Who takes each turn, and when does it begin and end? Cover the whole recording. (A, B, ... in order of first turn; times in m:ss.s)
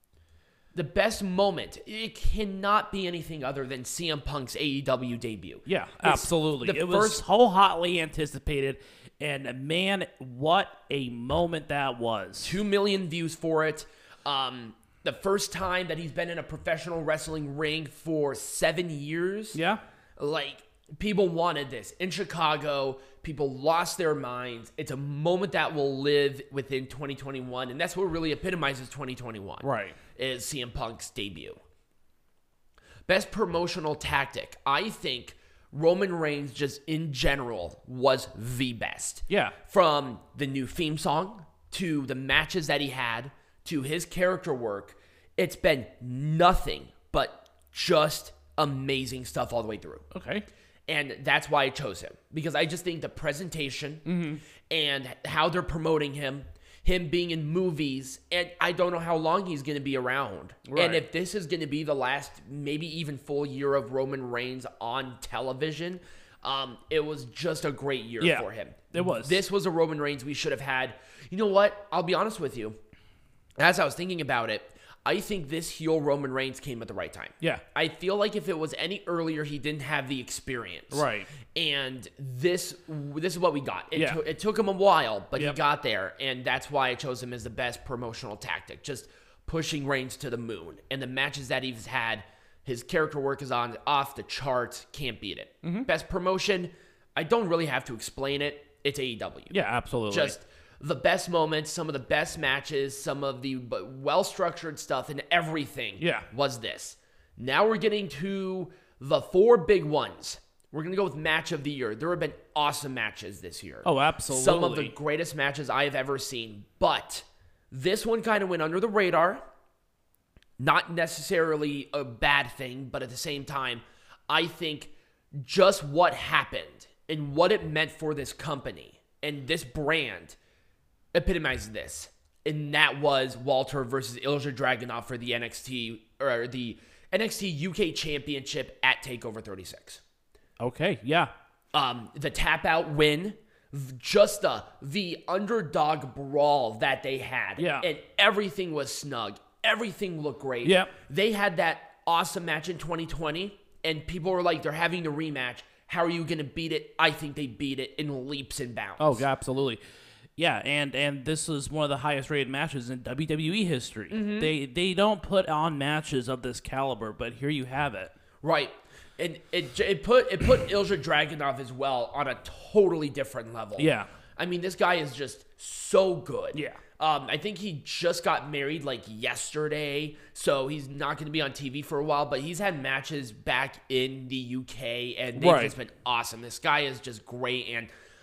0:00.7-0:07.2 A
0:05.7-0:12.6 B
0:12.4-0:19.6 A
0:19.5-0:19.8 B
0:20.2-0:31.6 A
0:29.6-0:30.0 B
0:33.1-0:50.0 A
0:39.3-0:39.6 B
0:50.1-0:50.5 B
0:50.9-0:54.1 A
0:54.0-0:54.4 B
0:54.7-1:12.8 A
1:00.7-1:01.0 B
1:08.2-1:09.4 B
1:13.6-1:39.5 A
1:20.9-1:21.3 B
1:35.6-1:35.9 B
1:39.5-1:40.4 B
1:40.1-1:59.4 A
1:46.0-1:46.3 B
1:53.8-1:54.9 B
2:00.6-2:10.4 A
2:11.1-2:20.0 A
2:20.6-2:21.3 B
2:21.7-2:39.3 A
2:27.6-2:27.9 B
2:30.6-2:30.9 B
2:39.0-2:39.8 B
2:40.4-2:48.1 B
2:44.1-2:44.5 A
2:48.4-3:07.9 A
2:53.8-2:54.1 B
2:56.5-2:56.8 B
3:05.4-3:05.7 B